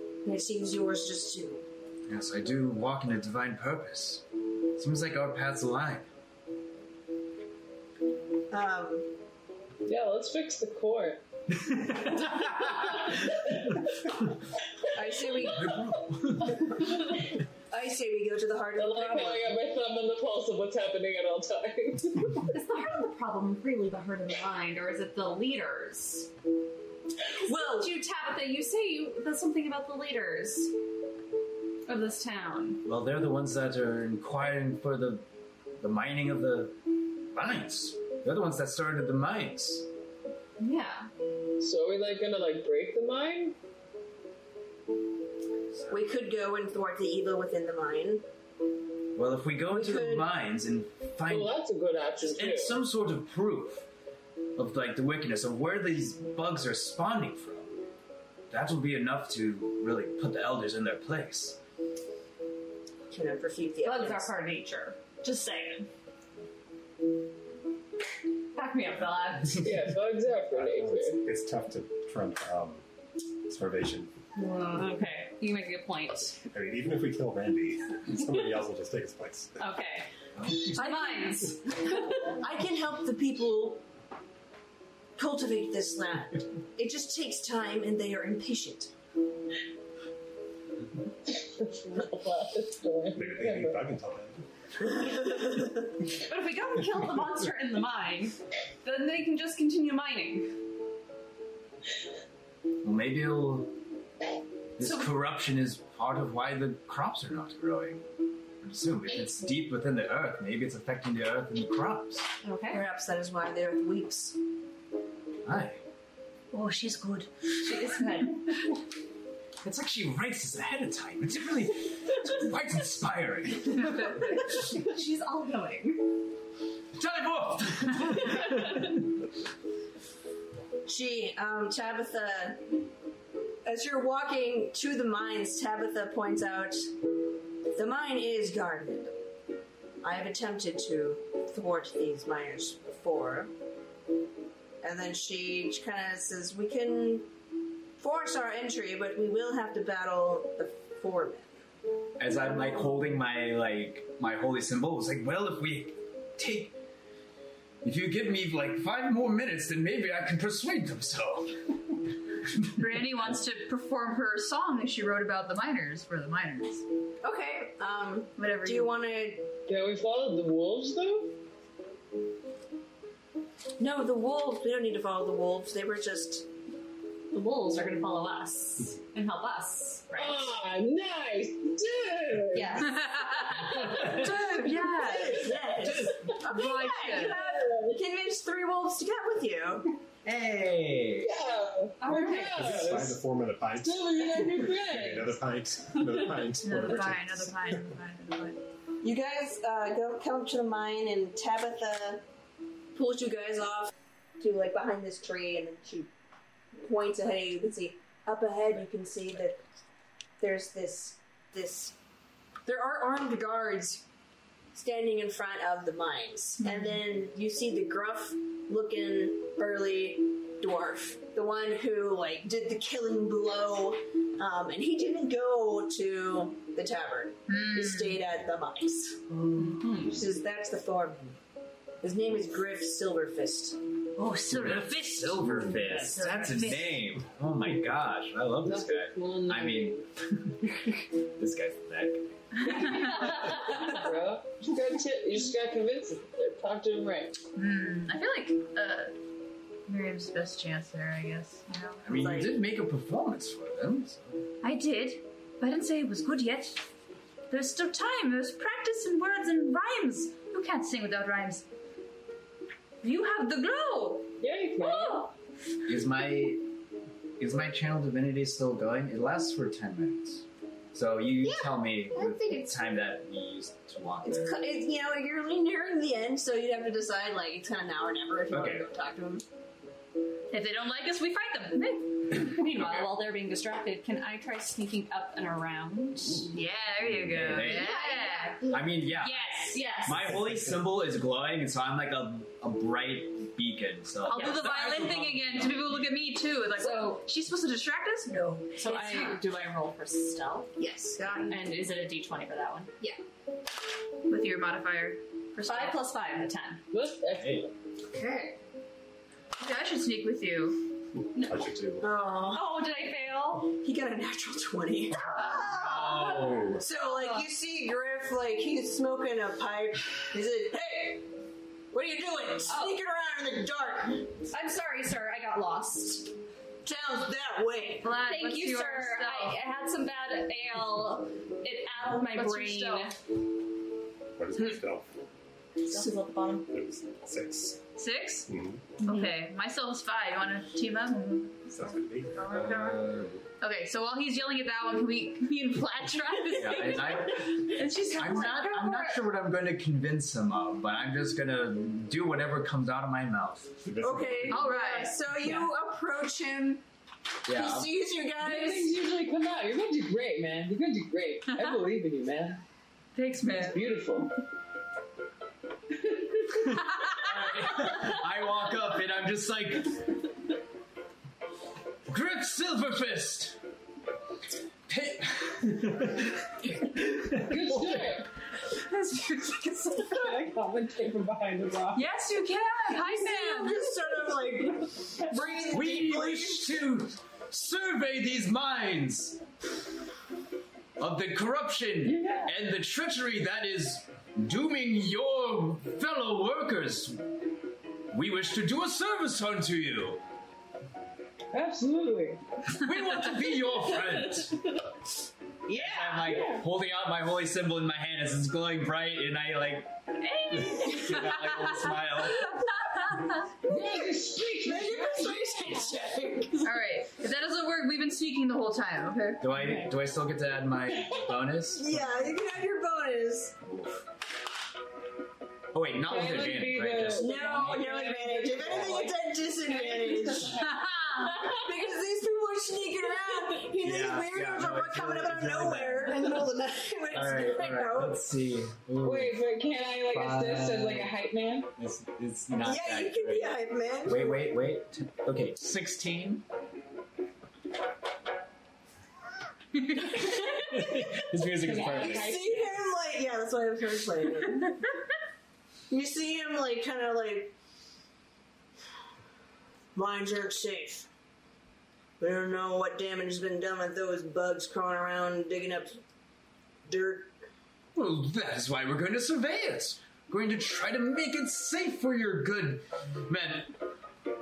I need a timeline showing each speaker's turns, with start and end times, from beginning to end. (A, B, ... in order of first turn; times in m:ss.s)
0:00.2-0:01.6 A
0:02.1-0:04.2 B
0:04.8-0:06.1 B
0:08.5-0:09.1 A
0:09.8-0:11.2 C
0:11.7-0:13.1 B
0:12.3-0:13.8 C
0:14.9-0:15.8 A
0:15.4-0:16.8 B
0:17.7-0:19.6 A
0:18.8-0:22.4 C
0:22.5-0:26.3 D
0:27.4-0:30.7 D
0:27.4-0:27.9 A
0:31.9-0:32.8 D
0:32.8-0:35.2 B
0:35.8-0:36.8 B
0:37.3-0:39.9 B
0:40.6-0:41.1 D
0:41.6-0:43.6 C
0:45.8-0:46.0 B
0:45.9-0:48.2 A
0:49.2-0:51.5 B
0:49.7-0:50.3 A
0:51.3-0:52.8 C
0:52.2-0:53.9 B
0:54.6-0:57.8 B
0:58.5-1:01.6 B
1:03.1-1:04.3 A
1:03.8-1:05.9 D
1:08.6-1:09.6 D
1:09.6-1:11.2 C
1:10.5-1:12.8 E
1:13.5-1:14.1 E
1:14.4-1:16.4 D
1:16.5-1:19.6 E
1:19.6-1:20.1 D
1:20.4-1:20.8 B
1:20.7-1:22.2 D
1:20.8-1:21.5 A
1:22.2-1:23.8 A
1:25.2-1:28.9 A
1:31.4-1:33.9 C
1:33.2-1:34.4 E
1:35.1-1:35.6 A
1:36.2-1:40.6 D
1:42.8-1:43.7 B
1:44.8-1:48.0 B
1:48.6-1:52.3 B
1:52.4-1:52.8 D
1:52.7-1:54.4 A
1:55.4-1:55.8 B
1:56.5-1:58.4 F
1:57.6-1:58.4 D
1:59.6-2:04.3 B
2:04.7-2:06.0 D
2:07.0-2:09.1 B
2:10.8-2:12.6 A
2:13.6-2:16.9 A
2:17.8-2:19.2 A
2:20.0-2:23.5 A
2:24.8-2:27.3 A
2:28.0-2:31.6 A
2:32.2-2:36.8 B
2:37.8-2:41.6 B
2:42.8-2:46.8 F
2:47.2-2:49.5 A
2:48.4-2:48.9 F
2:49.7-2:51.3 C
2:53.8-2:56.5 A
2:57.3-3:00.5 D
3:00.1-3:03.0 C
3:02.5-3:03.1 D
3:02.8-3:05.6 F
3:03.8-3:04.3 B
3:04.6-3:09.9 A
3:05.8-3:06.3 B
3:06.4-3:07.4 F
3:07.2-3:08.0 C
3:10.2-3:11.4 B
3:11.2-3:13.2 C
3:12.0-3:12.5 F
3:12.2-3:17.8 E
3:13.8-3:15.4 C
3:16.6-3:18.6 F
3:19.0-3:22.2 A
3:22.9-3:26.1 A
3:26.8-3:29.6 A
3:30.4-3:32.0 A
3:32.6-3:34.1 A
3:34.7-3:49.2 A
3:36.6-3:37.0 F
3:47.5-3:48.2 F
3:49.6-3:50.1 D
3:50.0-3:51.4 A
3:52.0-3:53.8 A
3:54.2-3:57.0 F
3:54.5-4:03.2 B
3:58.6-4:00.0 C
4:02.6-4:03.4 F
4:02.7-4:07.4 C
4:07.6-4:09.1 F
4:09.9-4:12.0 F
4:12.0-4:14.4 B
4:12.1-4:12.6 A
4:14.6-4:16.8 F
4:17.5-4:21.7 F
4:23.0-4:25.3 F
4:24.4-4:25.3 C
4:25.9-4:26.7 B
4:27.4-4:34.6 B
4:31.4-4:32.8 A
4:34.2-4:39.4 A
4:38.5-4:38.9 B
4:40.5-4:42.8 F
4:42.4-4:46.5 D
4:42.6-4:43.1 B
4:46.5-4:49.8 F
4:47.0-4:48.0 B
4:47.6-4:48.8 D
4:48.7-4:56.1 B
4:49.6-4:50.4 D
4:54.3-4:59.4 F
4:54.3-4:54.6 D
4:56.8-4:57.2 D
4:58.7-5:00.7 D
5:00.8-5:01.6 A
5:01.5-5:02.9 D
5:04.3-5:06.0 F
5:05.6-5:06.8 D
5:06.9-5:07.7 C
5:07.4-5:07.7 B
5:08.1-5:08.6 A
5:09.6-5:10.8 F
5:11.4-5:12.0 E
5:12.0-5:12.8 A
5:12.5-5:13.7 D
5:13.8-5:21.3 A
5:15.6-5:16.8 B
5:21.9-5:24.3 A
5:22.7-5:23.0 D
5:24.5-5:26.3 D
5:26.8-5:28.1 A
5:28.0-5:29.6 F
5:28.0-5:33.2 D
5:32.3-5:33.2 F
5:34.4-5:35.1 E
5:35.8-5:36.7 D
5:36.7-5:37.8 E
5:38.0-5:38.5 F
5:38.5-5:38.8 E
5:39.0-5:43.1 F
5:39.0-5:39.3 D
5:41.7-5:42.6 E
5:42.5-5:43.4 B
5:43.6-5:49.2 F
5:46.5-5:53.8 B
5:53.8-5:54.7 E
5:54.0-5:56.8 A
5:54.5-5:55.6 F
5:57.5-5:57.9 B
5:57.5-5:58.9 A
5:58.4-6:02.6 C
6:03.2-6:03.8 F
6:03.5-6:04.3 C
6:06.8-6:10.1 B
6:12.1-6:13.6 B
6:14.9-6:18.2 B
6:17.4-6:18.3 C
6:18.7-6:20.3 F
6:20.0-6:22.0 C
6:21.9-6:23.9 F
6:22.9-6:26.7 A
6:25.7-6:29.4 B
6:31.0-6:37.3 B
6:32.0-6:32.5 C
6:38.1-6:40.2 B
6:41.5-6:42.4 C
6:42.7-6:44.6 B
6:45.7-6:49.9 B
6:46.2-6:46.6 C
6:50.2-6:51.9 F
6:50.5-6:52.7 B
6:53.0-6:53.3 F
6:53.6-6:56.0 C
6:53.7-6:56.6 A
6:56.6-6:59.4 F
6:59.4-7:02.4 B
6:59.5-6:59.9 C
7:01.7-7:03.6 A
7:03.6-7:04.0 B
7:05.7-7:07.9 B
7:06.0-7:11.2 C
7:07.2-7:10.6 A
7:10.7-7:11.3 F
7:11.4-7:18.2 A
7:13.7-7:16.5 B
7:17.1-7:19.4 B
7:19.0-7:21.7 C
7:20.1-7:21.2 B
7:21.8-7:26.4 B
7:22.6-7:24.4 A
7:30.0-7:30.9 A
7:30.2-7:32.5 B
7:31.6-7:32.8 C
7:31.9-7:34.9 A
7:35.9-7:37.5 A
7:40.0-7:41.1 A
7:42.2-7:46.0 A
7:46.9-7:47.4 A
7:48.0-7:53.7 B